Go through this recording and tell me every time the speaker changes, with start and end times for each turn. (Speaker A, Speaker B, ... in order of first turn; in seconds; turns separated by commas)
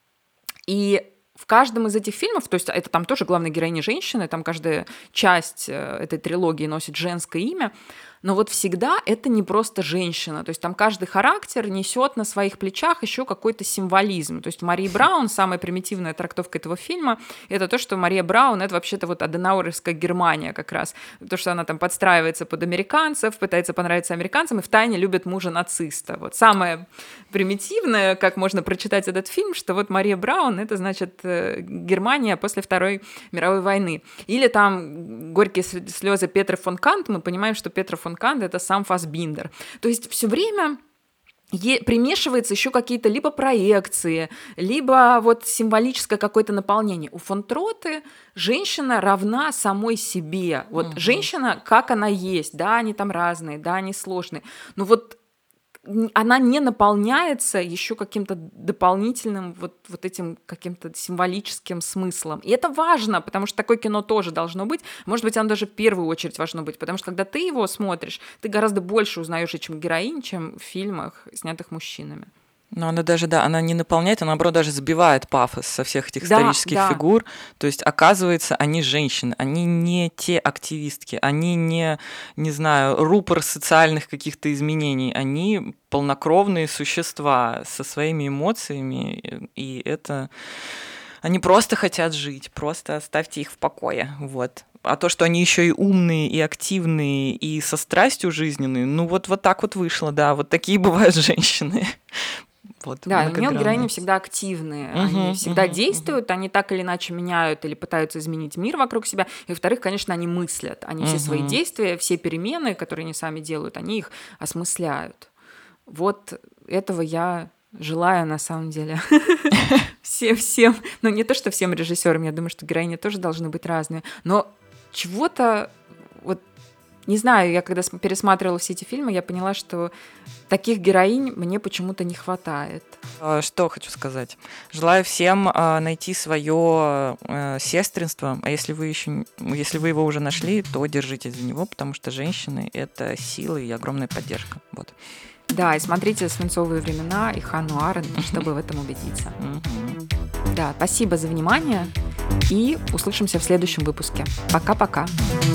Speaker A: 0.7-40.8, Speaker A: 41.5-55.2, Speaker B: 50.8-51.3, Speaker A: 55.9-72.3, Speaker B: 72.7-90.3, Speaker A: 76.2-77.0, Speaker B: 91.2-103.9, Speaker A: 103.0-115.3, Speaker B: 104.9-106.2, Speaker B: 111.0-111.6, Speaker A: 115.9-126.4, Speaker A: 127.1-129.9, Speaker A: 130.5-133.0, Speaker B: 133.2-144.9, Speaker A: 145.5-149.4, Speaker B: 148.2-148.4, Speaker B: 149.4-150.0, Speaker A: 150.5-151.9, Speaker A: 152.5-155.1